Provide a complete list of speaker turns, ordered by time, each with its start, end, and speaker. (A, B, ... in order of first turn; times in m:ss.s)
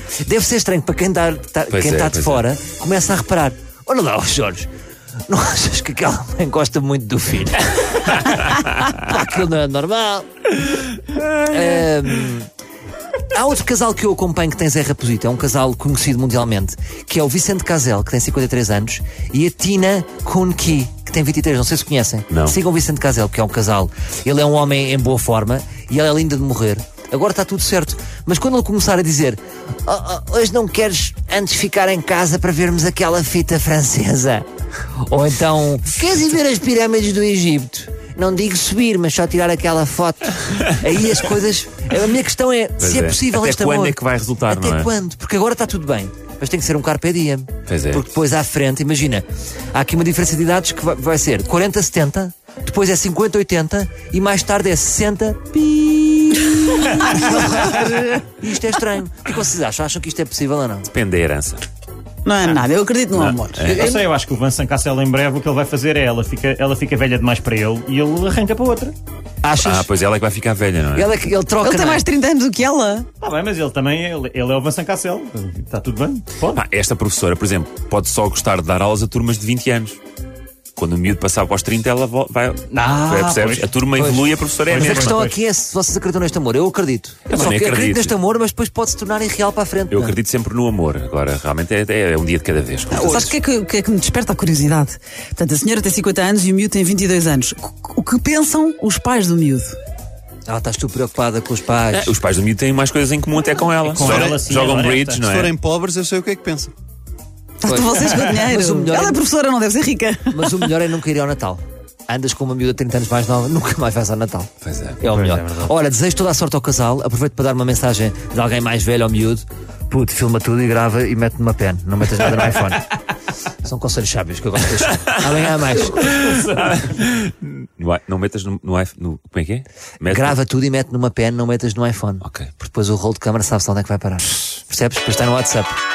0:00.2-0:04.7 A
0:01.7-0:02.4 B
0:05.3-0:10.5 A
0:11.3-0:12.5 A
0:13.3-0:34.5 A
0:22.3-0:22.6 B
0:35.0-1:00.9 A
0:42.8-0:44.9 B
0:47.7-0:48.0 B
0:57.0-0:58.0 C
1:00.9-1:01.6 B
1:02.2-1:03.6 D
1:03.1-1:04.0 B
1:03.6-1:09.0 C
1:03.7-1:04.0 A
1:09.4-1:09.9 A
1:09.6-1:11.2 B
1:11.0-1:12.0 A
1:11.6-1:13.1 D
1:13.2-1:16.6 C
1:16.5-1:20.0 B
1:20.8-1:25.2 B
1:22.7-1:23.7 C
1:22.8-1:23.3 A
1:23.9-1:30.2 A
1:24.7-1:25.4 C
1:27.3-1:28.2 B
1:29.9-1:33.3 B
1:32.9-1:39.8 D
1:33.0-1:33.3 A
1:40.5-1:42.1 A
1:41.9-1:45.6 B
1:43.9-1:45.3 C
1:44.0-1:44.5 E
1:45.3-1:46.7 E
1:47.6-1:50.7 D
1:47.7-1:49.2 A
1:50.3-1:54.5 A
1:54.6-1:55.0 B
1:55.0-2:02.9 A
1:55.1-1:55.7 C
2:03.6-2:06.4 A
2:06.0-2:06.7 C
2:06.7-2:10.4 B
2:10.1-2:15.7 A
2:12.2-2:12.5 B